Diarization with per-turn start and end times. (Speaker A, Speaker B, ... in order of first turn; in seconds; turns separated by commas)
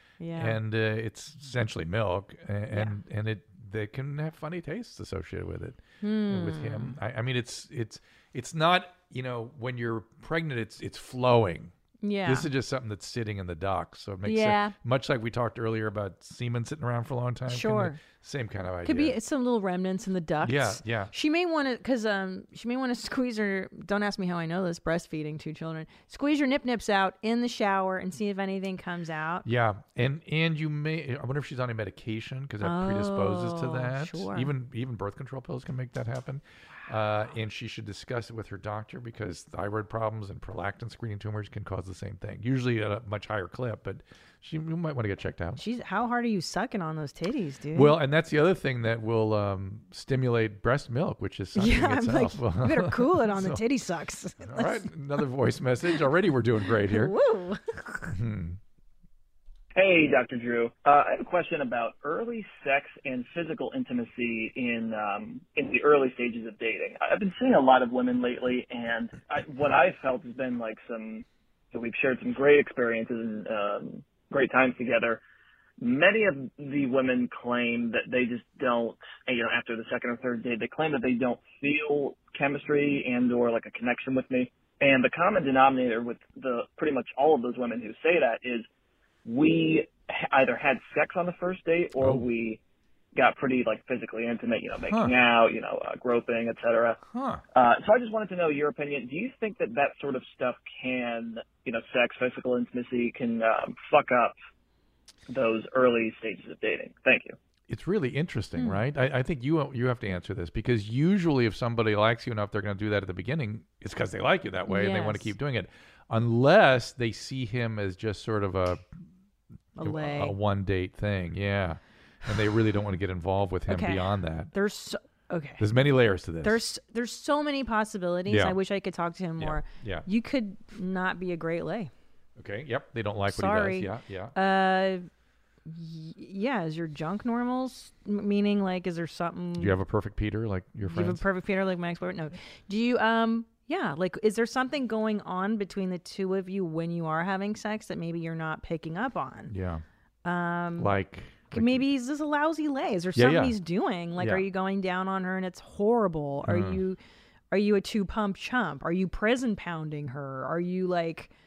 Speaker A: 0.2-0.6, Speaker B: 0.4-11.7, Speaker A: 6.0-7.0, Speaker A: 12.0-12.5, Speaker B: 12.2-19.2, Speaker A: 14.2-14.7, Speaker A: 17.5-18.0, Speaker A: 18.8-29.4, Speaker B: 20.4-21.1, Speaker B: 29.4-45.6, Speaker A: 32.6-34.5, Speaker A: 45.6-48.0, Speaker B: 47.7-53.6, Speaker A: 51.5-54.9, Speaker B: 54.4-57.1, Speaker A: 56.7-58.2, Speaker B: 58.1-58.6, Speaker C: 59.7-75.2, Speaker C: 75.8-88.7, Speaker C: 89.2-92.6, Speaker B: 92.0-92.3, Speaker C: 93.1-97.0, Speaker B: 94.9-95.1, Speaker B: 97.1-97.4, Speaker C: 97.5-104.4, Speaker C: 105.3-107.4, Speaker B: 107.7-118.8, Speaker A: 108.5-108.8, Speaker A: 114.7-115.3, Speaker A: 119.8-120.3, Speaker B: 119.8-124.5, Speaker A: 123.7-125.7, Speaker B: 125.6-126.6, Speaker A: 126.4-131.9, Speaker B: 128.3-128.6, Speaker B: 129.4-130.1, Speaker B: 132.4-134.3, Speaker A: 133.3-135.1, Speaker A: 135.7-139.7, Speaker B: 139.6-141.2, Speaker A: 140.8-149.5, Speaker B: 149.5-149.8, Speaker A: 150.2-150.9, Speaker B: 150.8-151.8, Speaker A: 151.5-157.0, Speaker B: 153.1-153.6, Speaker B: 154.2-154.4, Speaker B: 156.4-156.8, Speaker A: 157.5-161.3